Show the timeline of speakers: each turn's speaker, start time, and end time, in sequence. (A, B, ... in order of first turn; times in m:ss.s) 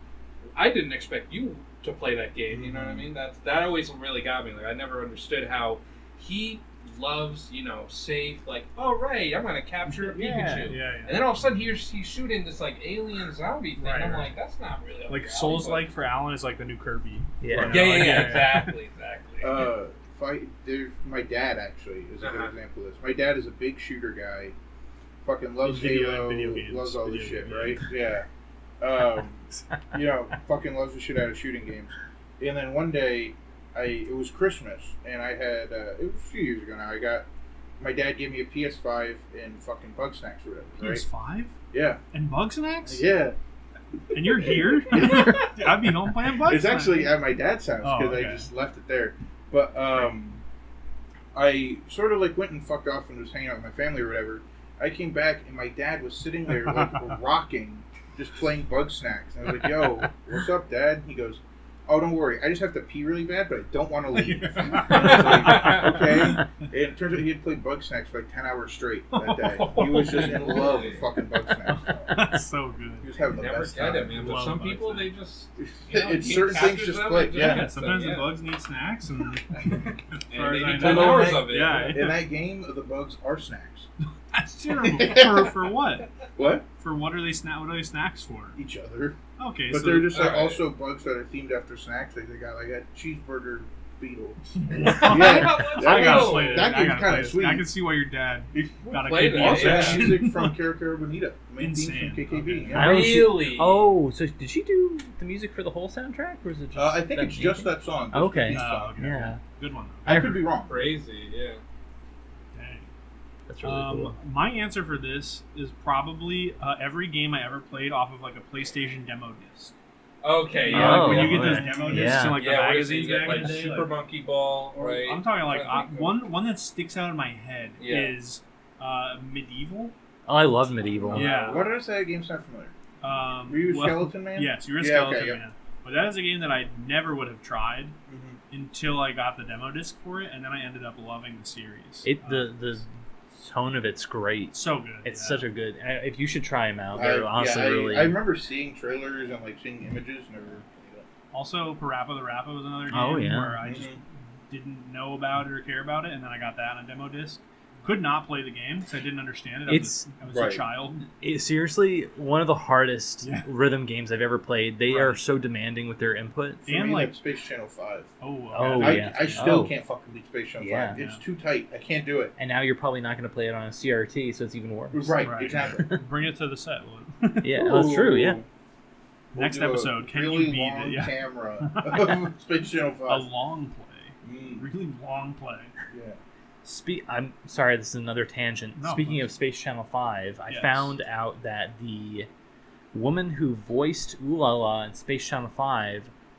0:00.5-0:15.9 A
0:02.5-0:03.1 B
0:09.8-0:11.3 C
0:13.8-0:14.3 C
0:15.1-0:18.8 C
0:17.4-0:18.4 D
0:17.7-0:19.7 A
0:19.4-0:24.6 B
0:22.2-0:22.5 A
0:25.2-0:28.3 B
0:25.6-0:27.8 C
0:28.8-0:37.2 B
0:37.8-0:41.0 B
0:40.8-0:41.6 C
0:41.7-0:42.0 B
0:42.1-0:43.1 C
0:42.8-0:43.4 B
0:44.1-0:47.1 C
0:44.2-0:50.4 B
0:47.8-0:48.5 C
0:51.3-1:12.4 B
0:56.7-0:57.0 C
1:04.2-1:06.5 C
1:04.6-1:06.2 A
1:09.3-1:11.1 A
1:09.5-1:10.7 C
1:11.7-1:13.1 C
1:13.0-1:14.4 B
1:13.4-1:18.3 A
1:14.1-1:15.1 C
1:15.6-1:17.7 B
1:17.3-1:22.2 C
1:20.3-1:22.0 A
1:20.6-1:23.9 B
1:24.3-1:26.1 C
1:24.8-1:25.5 B
1:26.4-1:26.6 B
1:26.8-1:28.6 C
1:28.6-1:29.2 B
1:29.4-1:30.2 C
1:29.7-1:37.7 B
1:30.1-1:30.6 A
1:34.7-1:40.5 C
1:35.0-1:36.7 A
1:38.5-1:43.3 B
1:39.0-1:40.1 A
1:41.6-1:43.1 C
1:42.7-1:43.9 A
1:42.7-1:49.4 D
1:46.7-1:49.2 B
1:48.4-1:50.2 C
1:50.0-1:50.4 D
1:50.0-1:50.9 B
1:50.6-1:51.6 A
1:52.5-1:52.9 C
1:53.5-1:54.2 D
1:53.6-1:59.7 C
2:00.2-2:01.6 A
2:00.7-2:03.9 C
2:00.7-2:02.4 D
2:00.7-2:02.2 B
2:02.2-2:06.2 A
2:04.8-2:09.9 C
2:07.8-2:08.2 A
2:10.3-2:11.3 D
2:10.8-2:12.7 B
2:11.1-2:11.7 C
2:13.0-2:18.0 C
2:13.5-2:15.4 B
2:18.1-2:18.4 B
2:18.5-2:22.6 C
2:22.0-2:28.2 D
2:24.5-2:25.4 C
2:26.9-2:31.0 B
2:31.3-2:41.1 C
2:32.9-2:33.6 D
2:33.6-2:34.0 B
2:39.7-2:40.1 D
2:40.3-2:40.6 B
2:41.2-2:46.6 D
2:43.2-2:43.5 C
2:44.8-2:45.2 C
2:46.6-2:47.2 C
2:46.6-2:48.1 B
2:48.2-2:49.4 C
2:48.5-2:49.7 D
2:48.7-2:52.3 B
2:50.6-2:51.0 D
2:52.4-2:55.8 D
2:54.9-2:56.0 B
2:55.2-2:57.7 C
2:57.4-2:58.4 D
2:57.5-2:58.4 B
2:59.3-3:03.3 B
2:59.3-3:02.2 C
3:03.1-3:05.7 C
3:04.2-3:04.6 B
3:05.9-3:06.2 B
3:06.6-3:12.3 D
3:08.8-3:09.3 C
3:10.5-3:10.9 C
3:12.9-3:16.1 D